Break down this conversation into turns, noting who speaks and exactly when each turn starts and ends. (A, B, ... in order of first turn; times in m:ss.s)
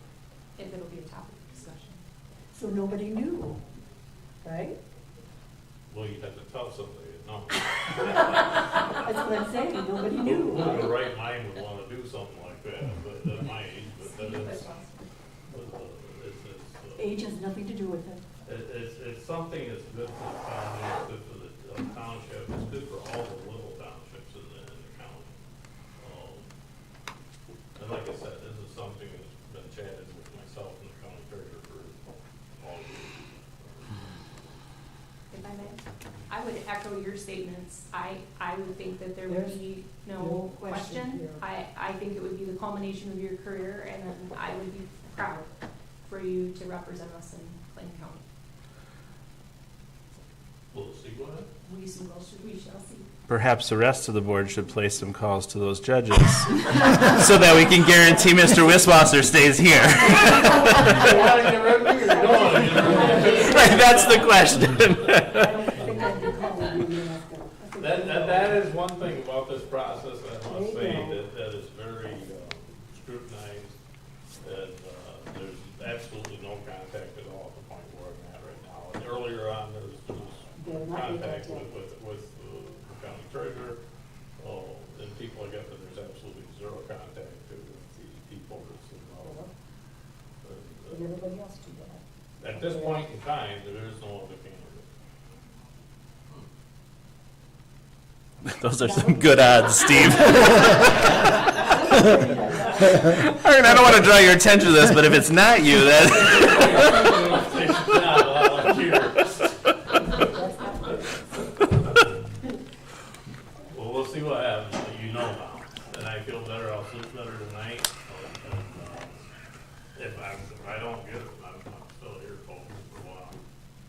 0:00.6-0:02.0 A
0:02.5-0:03.6 B
0:04.4-0:04.8 B
0:05.9-0:08.9 C
0:09.0-0:10.9 B
0:10.2-0:14.7 C
0:13.6-0:15.1 A
0:15.5-0:17.2 C
0:17.0-0:18.2 B
0:18.4-0:25.3 C
0:26.0-0:26.5 C
0:27.8-0:34.2 C
0:35.3-0:45.5 A
0:39.3-0:39.6 B
0:40.2-0:41.4 B
0:46.0-0:48.2 A
0:50.7-0:51.5 C
0:51.6-0:53.1 A
0:53.3-1:01.3 D
0:58.0-0:58.6 B
0:59.9-1:04.3 B
1:00.2-1:06.4 C
1:02.9-1:03.7 A
1:03.4-1:05.6 D
1:05.4-1:08.6 B
1:07.8-1:13.8 C
1:10.4-1:11.2 B
1:14.4-1:23.8 C
1:20.6-1:21.7 B
1:24.4-1:29.4 C
1:29.2-1:29.5 B
1:30.4-1:31.0 C
1:30.9-1:32.0 B
1:32.4-1:34.9 C
1:32.6-1:33.0 B
1:38.4-1:41.8 D
1:38.8-1:39.4 B
1:40.1-1:40.9 B
1:41.6-1:43.3 B
1:43.1-1:47.0 D
1:46.0-1:49.3 C
1:50.2-1:51.5 B
1:53.7-1:59.2 C
2:00.0-2:03.4 C